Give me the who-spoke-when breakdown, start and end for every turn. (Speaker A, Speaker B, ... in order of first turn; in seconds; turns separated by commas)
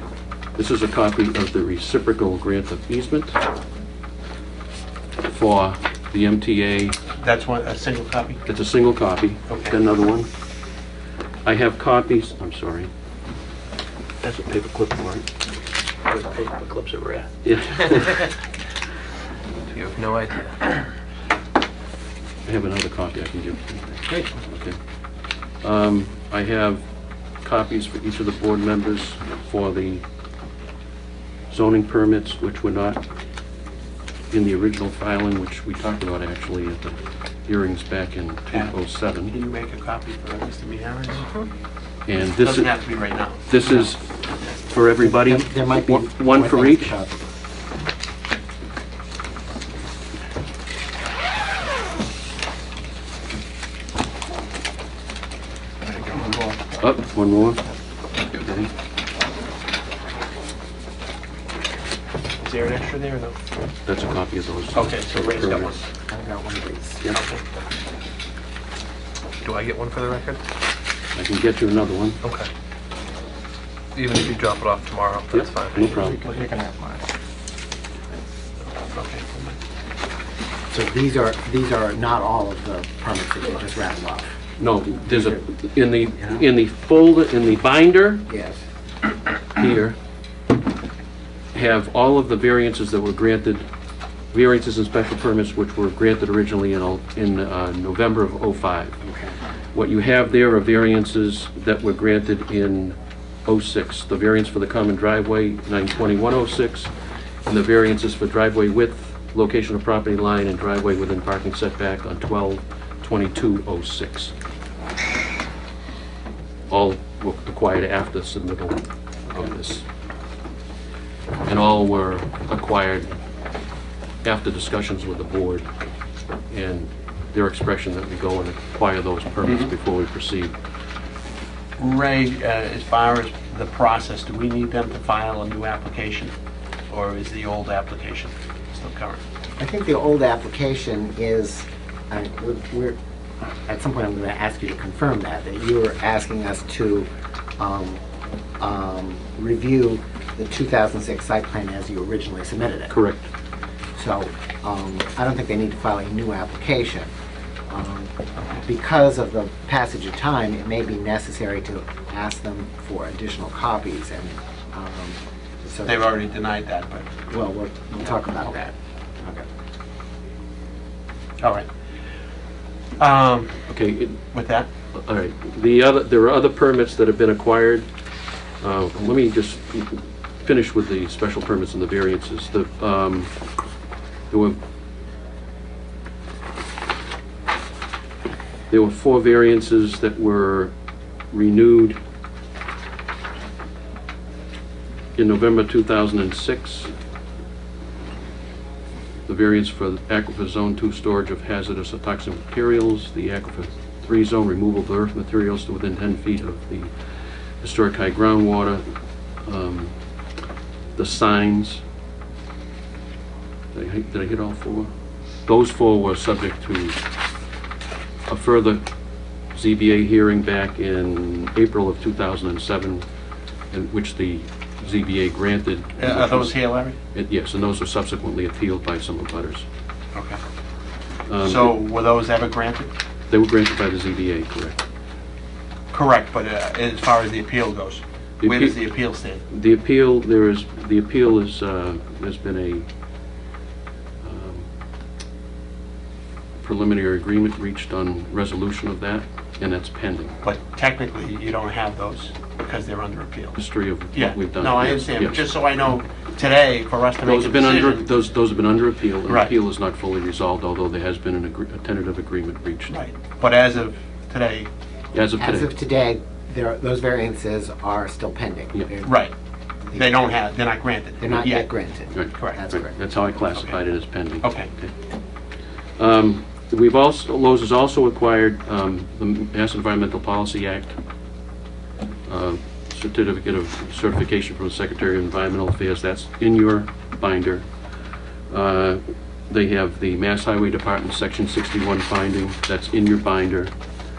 Speaker A: 0.6-3.4, Speaker A: 5.2-7.0, Speaker B: 7.2-8.4, Speaker A: 8.5-10.3, Speaker B: 9.5-9.8, Speaker A: 11.4-12.9, Speaker A: 14.2-15.3, Speaker C: 16.1-17.3, Speaker A: 17.4-18.2, Speaker C: 19.7-20.9, Speaker A: 22.4-24.8, Speaker A: 25.6-26.9, Speaker A: 27.4-30.0, Speaker A: 31.5-33.0, Speaker A: 34.3-39.4, Speaker B: 39.3-41.3, Speaker A: 42.1-42.8, Speaker B: 42.4-43.6, Speaker A: 43.5-44.1, Speaker A: 44.7-47.0, Speaker D: 45.0-47.3, Speaker B: 55.8-56.7, Speaker A: 56.8-57.6, Speaker A: 58.3-58.7, Speaker B: 62.4-63.4, Speaker A: 63.9-65.8, Speaker B: 64.8-65.9, Speaker D: 66.1-67.0, Speaker B: 67.1-67.4, Speaker C: 69.4-70.4, Speaker A: 71.2-72.2, Speaker C: 72.2-72.5, Speaker C: 74.0-76.0, Speaker A: 75.3-76.2, Speaker D: 76.0-77.0, Speaker B: 78.6-79.6, Speaker D: 80.7-84.3, Speaker A: 84.6-88.3, Speaker D: 85.1-85.4, Speaker D: 88.3-88.6, Speaker A: 89.5-90.0, Speaker A: 91.5-93.7, Speaker A: 94.3-99.0, Speaker D: 99.0-99.4, Speaker A: 99.7-103.0, Speaker A: 103.5-106.9, Speaker A: 107.5-114.3, Speaker A: 116.7-119.9, Speaker A: 121.5-123.1, Speaker A: 124.2-125.7, Speaker A: 126.5-130.6, Speaker B: 131.8-136.3, Speaker B: 136.9-139.2, Speaker D: 139.6-143.0, Speaker D: 143.7-148.0, Speaker D: 148.6-152.9, Speaker A: 152.9-153.3, Speaker D: 154.0-157.1, Speaker D: 157.7-166.1, Speaker B: 165.9-167.1, Speaker D: 167.3-169.5, Speaker B: 171.4-171.7, Speaker B: 173.0-173.6, Speaker A: 173.7-174.2, Speaker B: 174.3-174.7, Speaker A: 174.9-177.9, Speaker A: 178.6-183.3, Speaker A: 184.3-184.6, Speaker A: 188.7-190.7, Speaker A: 191.3-192.0, Speaker A: 195.2-196.9, Speaker A: 199.3-206.9, Speaker A: 207.6-208.9, Speaker A: 209.4-209.9, Speaker A: 211.0-211.8, Speaker A: 213.7-214.9, Speaker A: 215.5-217.0, Speaker A: 218.3-218.8, Speaker A: 219.5-223.1, Speaker A: 223.7-229.7, Speaker B: 226.0-227.0, Speaker B: 230.1-230.4, Speaker A: 231.3-231.8, Speaker B: 231.4-232.9, Speaker A: 233.3-234.8, Speaker B: 235.9-239.4, Speaker A: 238.4-238.8, Speaker A: 239.5-242.9, Speaker A: 244.2-244.7, Speaker A: 246.6-250.4, Speaker B: 250.4-253.6, Speaker A: 253.6-255.5, Speaker B: 254.1-258.1, Speaker A: 257.2-263.0, Speaker B: 259.3-259.5, Speaker B: 262.9-264.7, Speaker A: 265.1-265.7, Speaker D: 265.4-269.2, Speaker B: 269.1-269.3, Speaker D: 269.9-270.2, Speaker B: 269.9-271.7, Speaker D: 271.2-273.0, Speaker A: 272.1-274.9, Speaker B: 272.4-272.6, Speaker B: 274.4-274.7, Speaker A: 276.0-281.0, Speaker A: 282.3-287.7, Speaker A: 288.5-293.7